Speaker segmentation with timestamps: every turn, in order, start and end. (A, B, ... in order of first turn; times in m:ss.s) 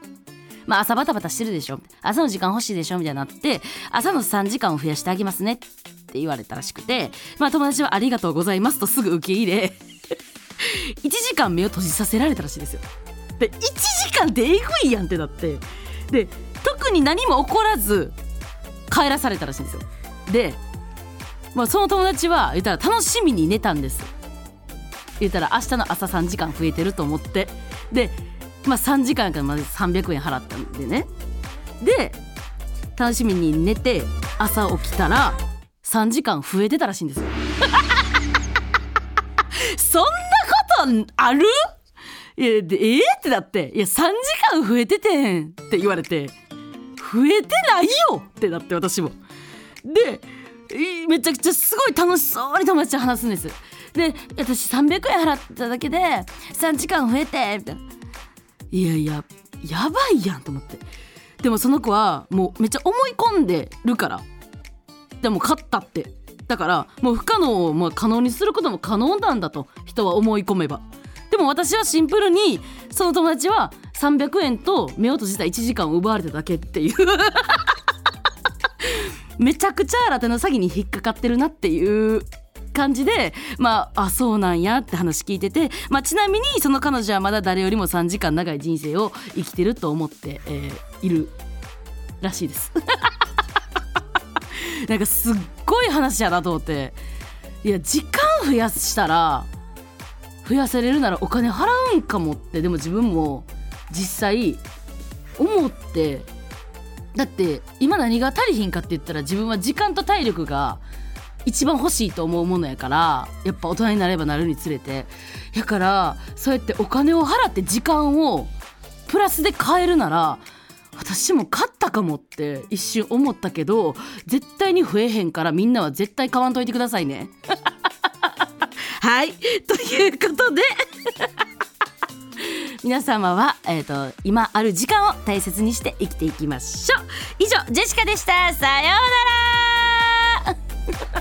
0:00.6-0:09.8 A
0:10.6-0:12.8 A
0:13.4-0:18.1 A
0:18.9-0:20.6 A
0:21.5-0:24.1 A
0:25.2-0:31.1 A
0:31.8-0:32.2 A
0:33.0-0:37.4 A
0:39.7-0:41.5 A
0:42.4-0:46.3 A
0:47.0-0:49.2 A
0:49.8-0:57.8 A
0:58.7-1:00.8 A
1:01.4-1:04.2 A
1:05.2-1:17.7 A
1:19.4-1:31.3 A
1:32.2-1:33.1 A
1:34.9-1:37.0 A
1:37.6-1:39.5 A
1:40.4-1:44.6 A
1:45.4-1:46.3 A
1:47.1-1:50.8 A
1:51.4-1:58.5 A
1:59.1-2:00.4 A
2:01.0-2:07.3 A
2:09.0-2:10.7 A
2:12.8-2:20.3 A